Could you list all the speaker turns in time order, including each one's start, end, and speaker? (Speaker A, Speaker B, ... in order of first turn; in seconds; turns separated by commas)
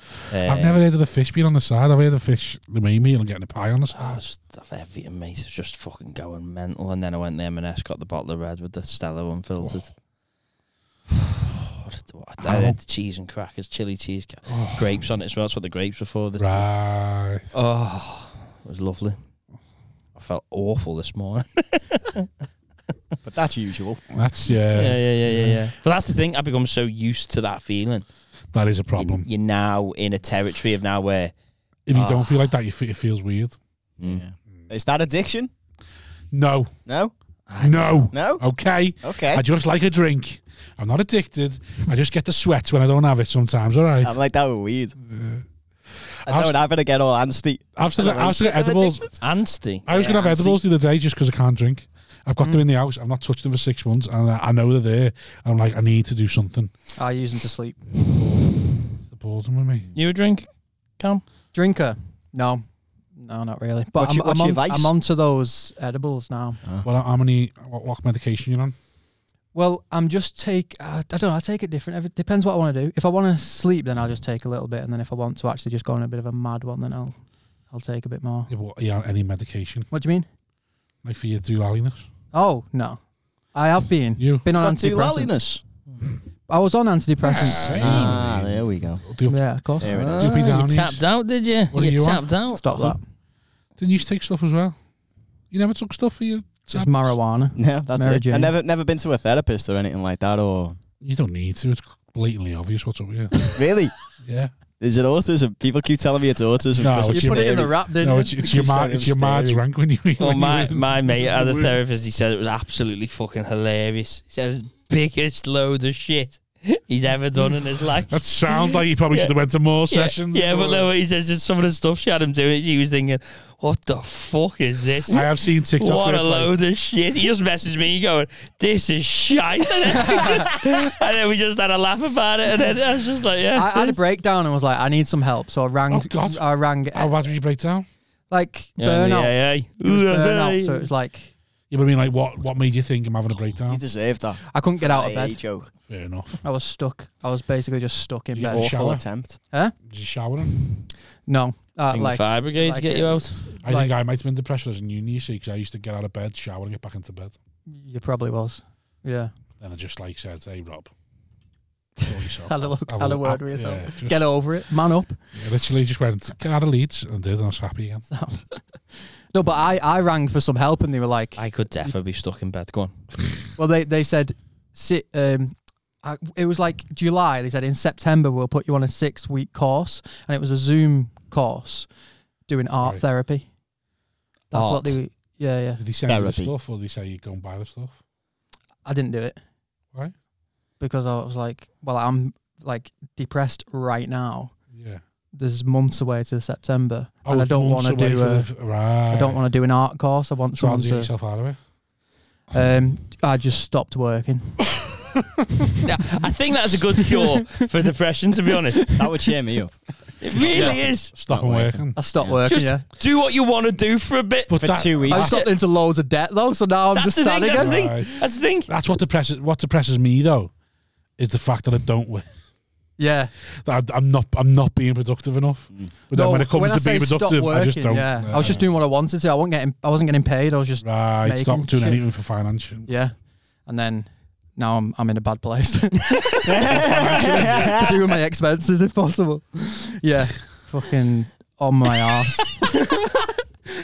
Speaker A: 0.3-0.8, Speaker B: 0.5-4.2, Speaker A: 3.9-9.9, Speaker A: 11.1-16.7, Speaker B: 12.4-12.8, Speaker B: 14.5-15.0, Speaker B: 16.4-17.5, Speaker A: 17.5-19.2, Speaker A: 20.1-22.3, Speaker C: 23.2-24.0, Speaker B: 24.1-25.6, Speaker A: 24.8-28.1, Speaker B: 28.5-29.3, Speaker A: 28.9-31.3, Speaker B: 31.9-33.6, Speaker A: 31.9-32.5, Speaker A: 34.0-34.2, Speaker C: 34.0-35.5, Speaker B: 36.3-36.7, Speaker C: 36.9-37.1, Speaker A: 37.5-38.1, Speaker B: 37.6-44.2, Speaker C: 38.1-38.4, Speaker C: 39.0-39.4, Speaker C: 44.0-45.0, Speaker B: 45.0-45.5, Speaker B: 46.0-46.6, Speaker C: 46.3-49.2, Speaker B: 47.8-49.1, Speaker A: 49.2-50.6, Speaker B: 49.9-56.7, Speaker D: 57.0-58.2, Speaker B: 58.1-58.5, Speaker B: 59.0-59.9, Speaker A: 60.0-60.5, Speaker A: 61.0-61.2, Speaker D: 61.5-62.6, Speaker D: 63.2-66.6, Speaker C: 64.0-64.9, Speaker B: 66.8-68.8, Speaker D: 69.5-77.2, Speaker D: 77.7-78.5, Speaker B: 78.5-79.9, Speaker D: 79.9-80.3, Speaker B: 81.0-82.1, Speaker D: 82.3-83.0, Speaker D: 83.5-85.3, Speaker B: 84.2-84.5, Speaker C: 84.5-85.6, Speaker D: 86.5-88.1, Speaker B: 87.2-89.4, Speaker C: 87.7-89.0, Speaker D: 89.3-90.2, Speaker C: 89.8-90.3, Speaker A: 89.8-93.0, Speaker B: 90.2-91.0, Speaker B: 91.7-92.3, Speaker D: 92.5-93.0, Speaker B: 93.8-94.8, Speaker B: 95.5-97.2, Speaker D: 96.7-98.5, Speaker C: 97.5-100.8, Speaker B: 101.0-103.5, Speaker C: 103.5-104.0, Speaker B: 104.2-104.5, Speaker C: 104.8-107.7, Speaker B: 106.8-111.8, Speaker D: 107.1-109.6, Speaker A: 110.2-119.3, Speaker B: 118.1-120.9, Speaker A: 119.9-134.0, Speaker B: 125.1-126.5, Speaker D: 130.0-130.5, Speaker D: 133.6-137.3, Speaker B: 135.9-137.9, Speaker D: 138.3-141.3, Speaker A: 138.8-140.9, Speaker B: 141.7-143.8, Speaker C: 143.7-145.7, Speaker D: 144.5-145.4, Speaker B: 145.9-146.4, Speaker D: 146.4-148.8, Speaker B: 148.3-149.1, Speaker C: 148.5-149.4, Speaker B: 149.9-150.6, Speaker D: 151.3-153.9, Speaker A: 151.9-153.4, Speaker B: 153.6-157.4, Speaker D: 157.7-159.3, Speaker B: 159.6-160.9, Speaker B: 162.0-164.3, Speaker D: 162.4-165.2, Speaker B: 165.3-168.1, Speaker D: 168.1-168.6, Speaker D: 169.3-171.9, Speaker A: 171.4-173.0, Speaker D: 173.6-181.9, Speaker D: 182.5-183.5, Speaker D: 184.5-185.8, Speaker A: 184.5-185.0, Speaker B: 185.8-187.9, Speaker C: 186.1-186.5, Speaker D: 188.8-189.4, Speaker D: 190.8-194.5, Speaker B: 194.7-195.0, Speaker D: 195.3-198.5, Speaker B: 197.2-199.4, Speaker D: 199.1-201.1, Speaker B: 200.6-201.6, Speaker D: 202.5-204.8, Speaker A: 205.8-209.0, Speaker D: 206.9-207.6, Speaker C: 209.0-209.7, Speaker A: 210.2-211.1, Speaker B: 210.3-212.0, Speaker D: 210.5-210.8, Speaker C: 211.3-212.4, Speaker D: 212.0-212.9, Speaker A: 212.5-215.5, Speaker B: 214.5-215.5, Speaker C: 214.6-215.4, Speaker D: 215.1-218.0, Speaker A: 216.9-218.7, Speaker B: 217.5-220.5, Speaker B: 221.2-222.3, Speaker D: 223.0-223.3, Speaker B: 223.6-228.6, Speaker D: 226.1-232.0, Speaker B: 230.8-232.9, Speaker D: 232.9-233.1, Speaker D: 233.7-243.3, Speaker C: 236.5-238.0, Speaker B: 236.7-237.8